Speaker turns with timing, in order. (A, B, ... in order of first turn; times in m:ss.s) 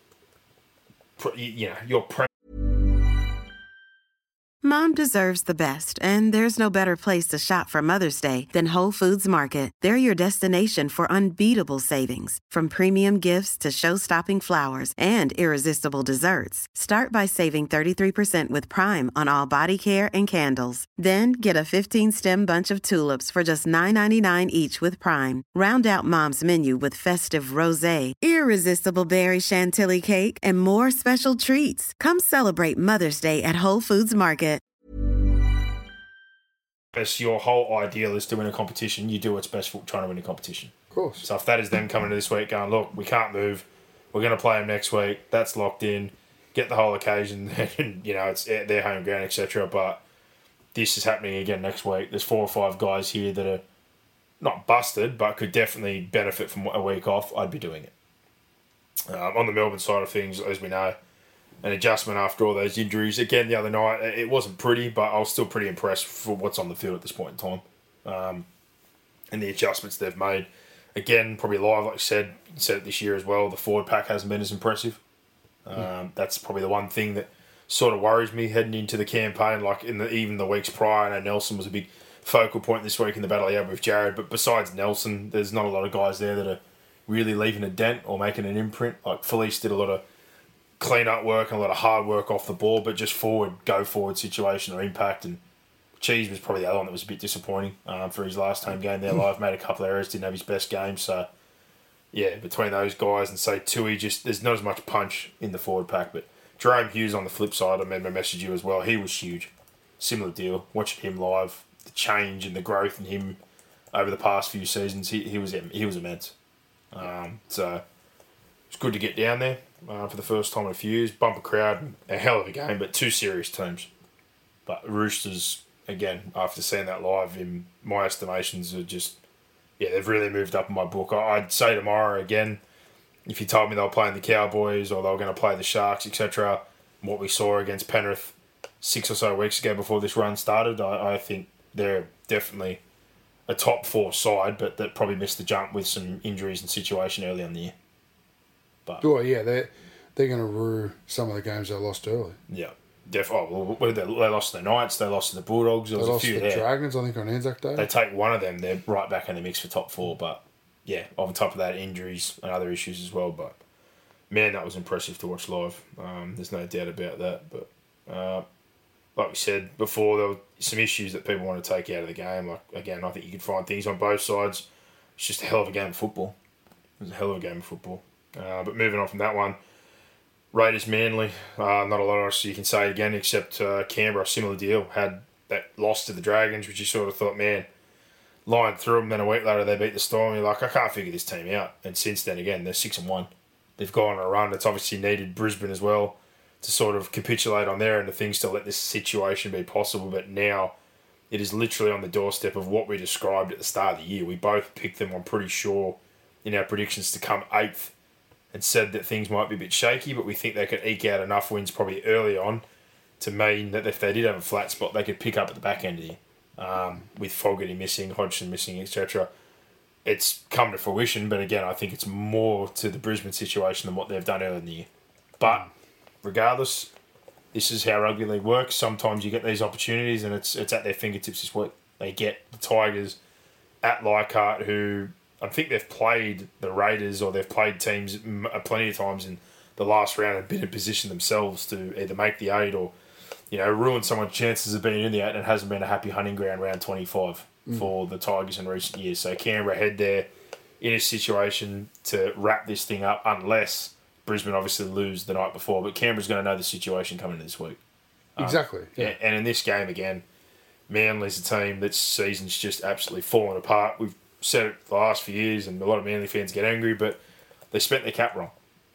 0:01.2-0:02.3 A
0:04.6-0:34.6 B
0:36.9-0:50.0 A
0:40.9-0:41.3 C
0:50.7-0:53.6 A
0:54.4-0:57.9 A
0:59.1-1:01.0 A
1:01.6-1:08.5 A
1:09.3-1:15.0 A
1:15.6-1:30.0 A
1:30.8-1:35.4 A
1:36.0-1:41.3 A
1:42.1-1:53.4 A
1:53.9-1:56.4 A
1:56.9-1:57.8 A
1:58.7-2:03.9 A
2:04.7-2:09.2 A
2:09.8-2:12.6 A
2:13.3-2:22.8 A
2:23.5-2:27.7 A
2:29.0-2:32.4 C
2:32.5-2:36.7 A
2:36.0-2:37.9 C
2:37.8-2:43.6 A
2:44.3-2:48.4 A
2:49.2-2:56.4 A
2:57.0-2:59.6 A
3:00.5-3:07.7 A
3:08.5-3:20.8 A
3:21.3-3:27.9 A
3:28.5-3:32.6 A
3:33.2-3:39.3 A
3:40.0-3:44.9 A
3:45.4-3:45.7 A
3:46.2-3:46.9 A
3:47.5-3:53.2 A
3:53.8-4:02.9 A
4:03.5-4:10.3 A
4:10.8-4:17.8 A
4:18.4-4:20.2 A
4:18.4-4:19.2 C
4:20.9-4:28.5 A